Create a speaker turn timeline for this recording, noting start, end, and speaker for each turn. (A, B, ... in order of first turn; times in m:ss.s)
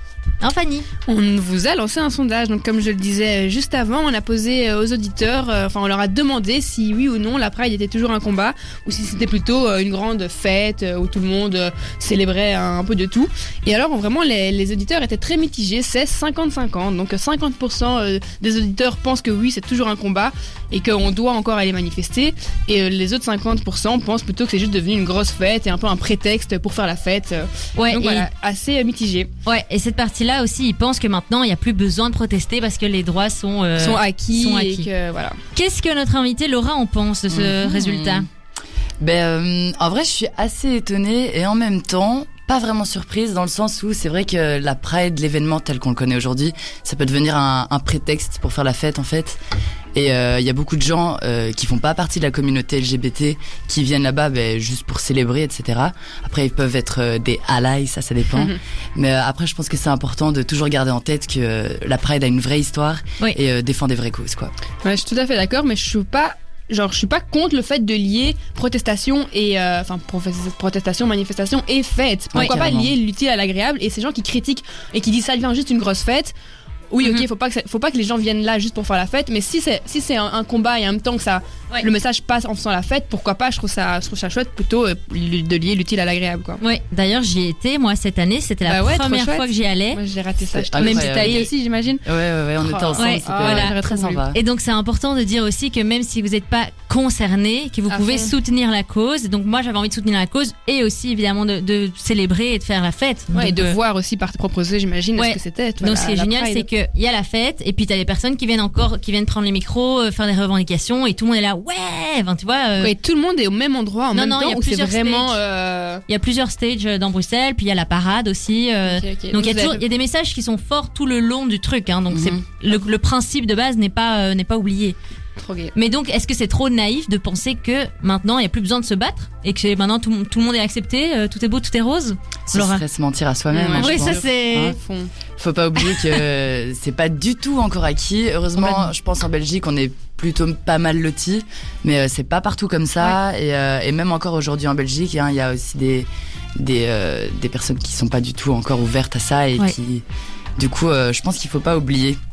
0:00.4-0:00.9 A
0:01.1-0:29.3 B
0:27.8-0:28.3 A
0:29.4-0:34.9 A
0:33.8-0:35.4 B
0:35.6-0:38.3 A
0:37.3-0:38.3 C
0:39.0-0:49.4 C
0:49.9-1:04.5 C
0:58.3-0:58.6 B
1:04.8-1:16.3 B
1:12.3-1:12.9 C
1:16.9-1:26.6 B
1:26.6-1:30.0 A
1:28.7-1:32.0 B
1:30.5-1:31.5 C
1:30.8-1:31.5 A
1:32.0-1:34.4 C
1:32.6-1:34.2 B
1:33.0-1:33.8 A
1:34.3-1:43.8 A
1:37.9-1:38.3 B
1:43.3-1:46.7 B
1:45.2-1:52.9 A
1:52.8-1:56.0 B
1:54.1-1:55.4 A
1:56.1-2:05.0 A
1:58.9-1:59.8 B
2:02.1-2:02.4 C
2:05.4-2:05.7 B
2:05.7-2:12.8 A
2:12.5-2:14.8 C
2:13.5-2:15.1 B
2:13.8-2:14.8 A
2:15.4-2:30.0 C
2:30.6-2:32.2 C